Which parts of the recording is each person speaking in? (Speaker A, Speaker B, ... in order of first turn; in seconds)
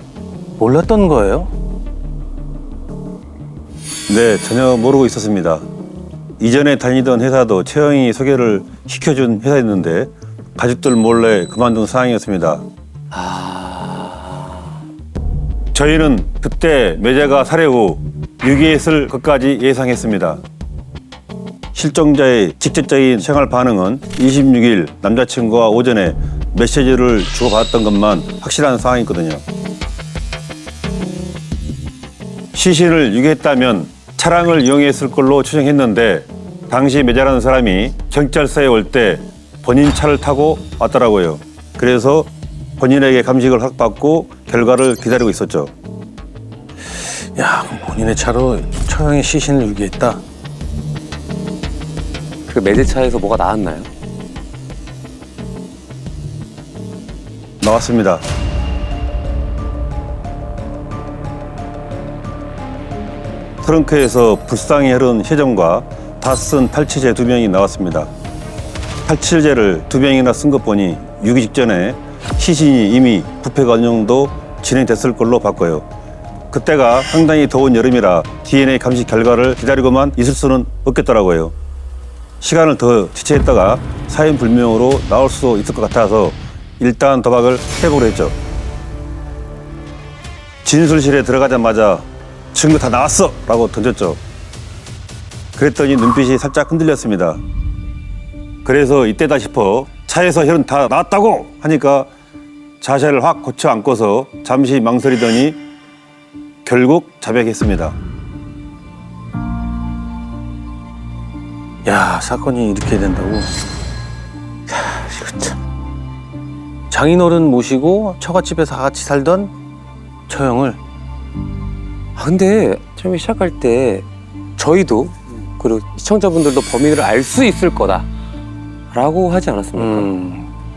Speaker A: 0.6-1.5, 46.9-50.2, 111.8-113.5, 116.9-119.5, 120.3-120.8, 129.8-130.5
Speaker B: 4.1-5.7, 6.4-12.7, 15.7-20.4, 21.7-29.4, 32.5-45.7, 57.6-58.2, 63.6-68.1, 69.0-75.9, 76.5-81.5, 82.4-88.4, 90.6-94.2, 95.5-97.4, 98.6-102.1, 102.8-105.6, 106.6-108.0
Speaker C: 13.1-14.7, 52.5-53.9, 114.8-115.5, 122.2-128.1, 128.9-130.1